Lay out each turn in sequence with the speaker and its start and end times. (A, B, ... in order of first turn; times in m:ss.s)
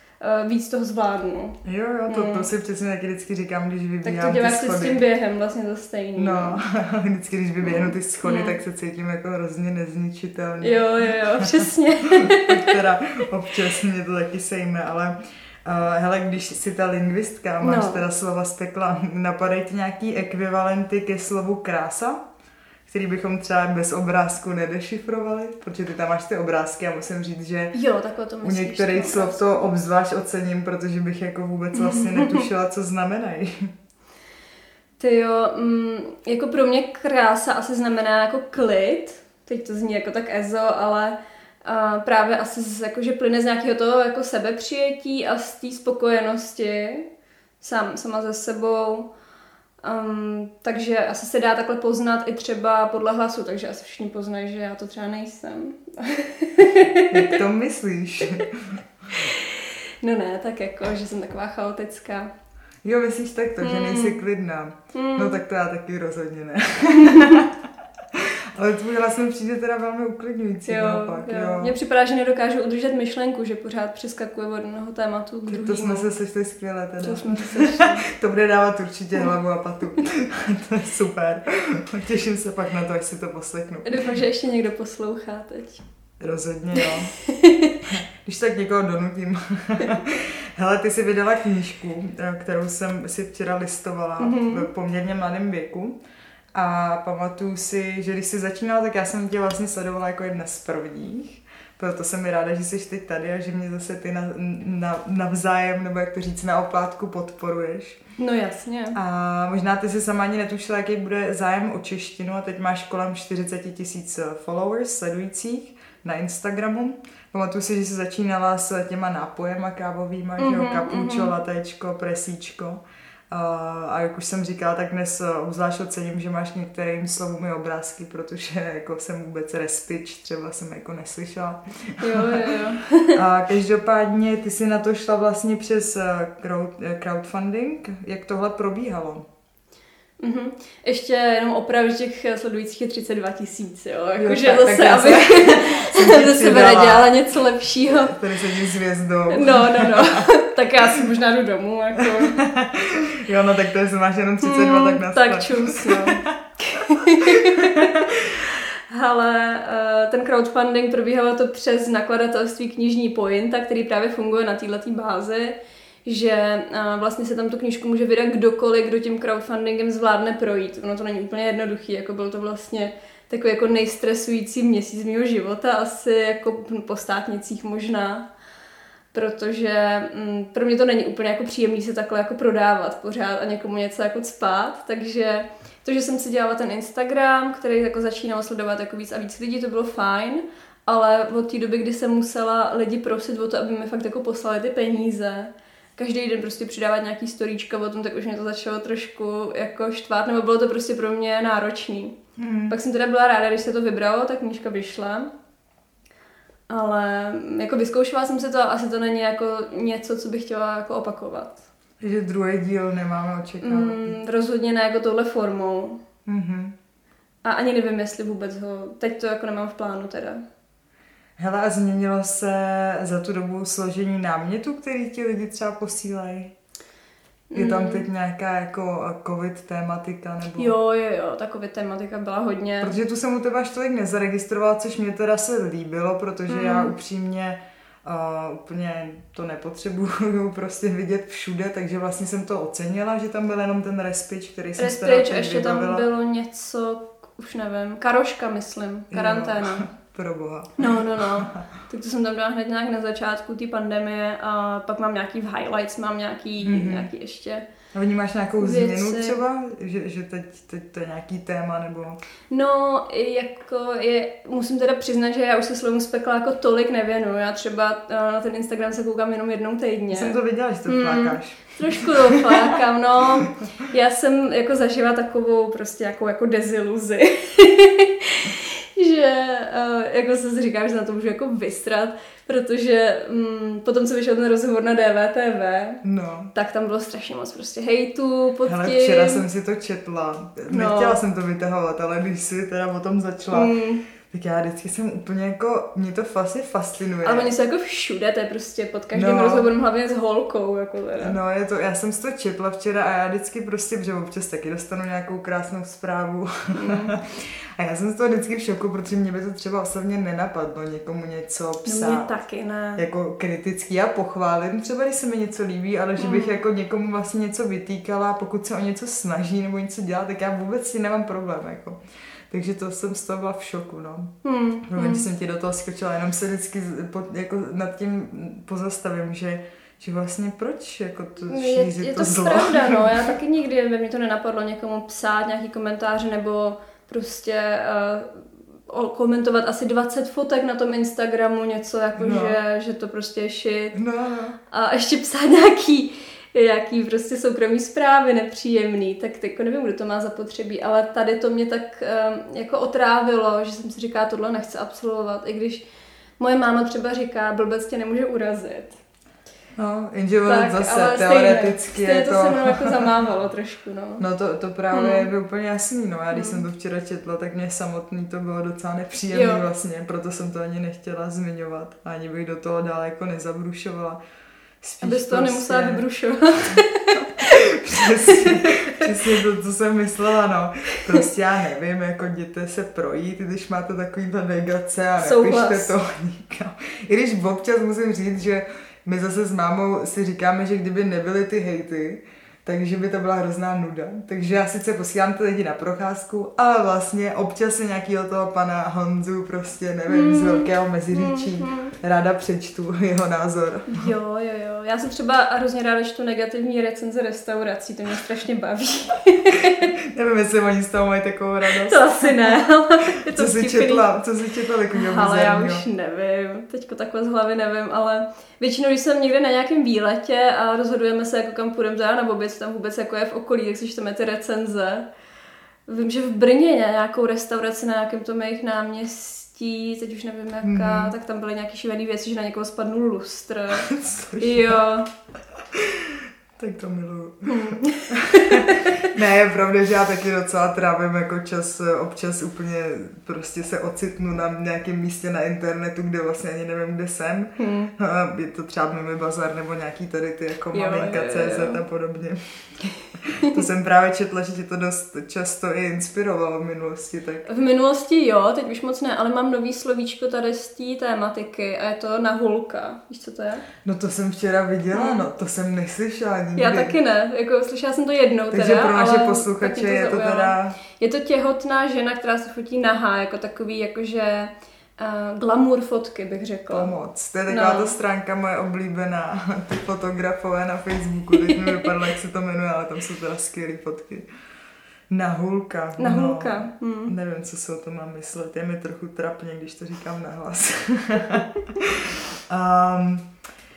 0:00.2-0:02.5 A
0:01.6-0:05.0 B
0:04.0-0:06.6 A
0:06.2-0:10.8 B
0:07.6-0:08.6 A
0:10.6-0:12.8 A
0:11.4-0:11.7 B
0:12.2-0:22.2 B
0:17.6-0:18.0 A
0:22.9-0:27.8 B
0:27.7-0:29.7 A
0:28.4-0:33.7 B
0:31.8-0:32.5 A
0:35.0-0:47.1 A
0:47.6-0:49.1 A
0:49.8-0:57.4 A
0:57.1-0:58.8 B
0:59.2-1:02.3 A
1:02.8-1:07.5 B
1:03.6-1:04.2 A
1:04.9-1:05.4 A
1:06.9-1:07.4 A
1:08.1-1:11.8 B
1:10.7-1:16.1 A
1:15.5-1:24.2 B
1:17.0-1:18.1 A
1:23.8-1:25.8 A
1:26.2-1:27.1 B
1:26.8-1:27.8 A
1:27.9-1:36.0 B
1:34.2-1:34.7 A
1:36.5-1:48.0 B
1:48.2-1:49.0 A
1:48.9-2:12.5 B
2:00.4-2:01.3 A
2:12.0-2:13.2 A
2:13.2-2:19.2 B
2:20.2-2:28.2 A
2:24.2-2:31.1 B
2:29.3-2:32.4 A
2:32.0-2:38.4 B
2:34.4-2:38.0 A
2:38.9-2:58.3 A
2:59.1-3:22.2 A
3:22.4-3:22.8 B
3:22.7-3:25.3 A
3:26.7-3:31.6 A
3:32.0-3:34.2 B
3:33.6-3:36.0 A
3:36.2-3:36.8 B
3:37.4-3:40.4 A
3:41.4-3:46.5 B
3:47.5-3:48.1 A
3:47.6-3:50.8 B
3:50.6-3:53.0 A
3:52.8-4:06.1 B
3:56.5-3:56.9 A
4:04.8-4:09.9 A
4:09.1-4:11.6 B
4:10.8-4:17.6 A
4:16.6-4:17.1 B
4:17.9-4:22.2 B
4:18.6-4:19.4 A
4:22.5-4:30.4 A
4:30.1-4:32.6 B
4:30.9-4:46.0 A
4:46.0-4:46.5 B
4:46.5-4:49.4 A
4:48.7-4:53.7 B
4:50.7-4:51.2 A
4:53.5-4:54.0 A
4:54.3-4:57.5 B
4:57.2-5:01.4 A
4:59.1-4:59.7 B
5:01.2-5:12.3 B
5:06.7-5:07.2 A
5:11.8-5:13.0 A
5:13.0-5:22.0 B
5:16.2-5:16.6 A
5:22.5-5:24.3 B
5:24.4-5:25.2 A
5:24.9-5:33.3 B
5:31.5-5:44.0 A
5:42.2-5:42.6 B
5:43.9-5:44.6 B
5:44.7-5:55.8 A
5:56.4-5:59.0 A
5:59.8-6:03.1 B
6:00.4-6:04.2 A
6:04.2-6:14.2 B
6:04.9-6:05.3 A
6:06.3-6:06.6 A
6:09.3-6:09.6 A
6:14.8-6:16.0 B
6:15.0-6:17.5 A
6:16.7-6:44.1 B
6:18.0-6:19.1 A
6:25.2-6:26.0 A
6:40.1-6:41.9 A
6:43.9-6:49.9 A
6:49.6-6:52.7 B
6:51.8-6:54.1 A
6:53.2-6:55.8 B
6:54.9-7:05.0 A
7:05.9-7:13.9 A
7:10.6-7:11.1 B
7:13.8-7:14.8 B
7:14.4-7:15.1 A
7:15.7-7:37.5 B
7:17.5-7:19.0 A
7:27.6-7:27.9 A
7:30.7-7:31.8 A
7:37.5-7:43.7 A
7:43.8-7:47.0 B
7:44.9-7:45.2 A
7:46.6-7:56.9 A
7:48.5-7:50.8 B
7:56.7-8:04.2 B
7:57.5-7:58.0 A
8:01.5-8:01.8 A
8:05.1-8:13.3 B
8:06.0-8:07.1 A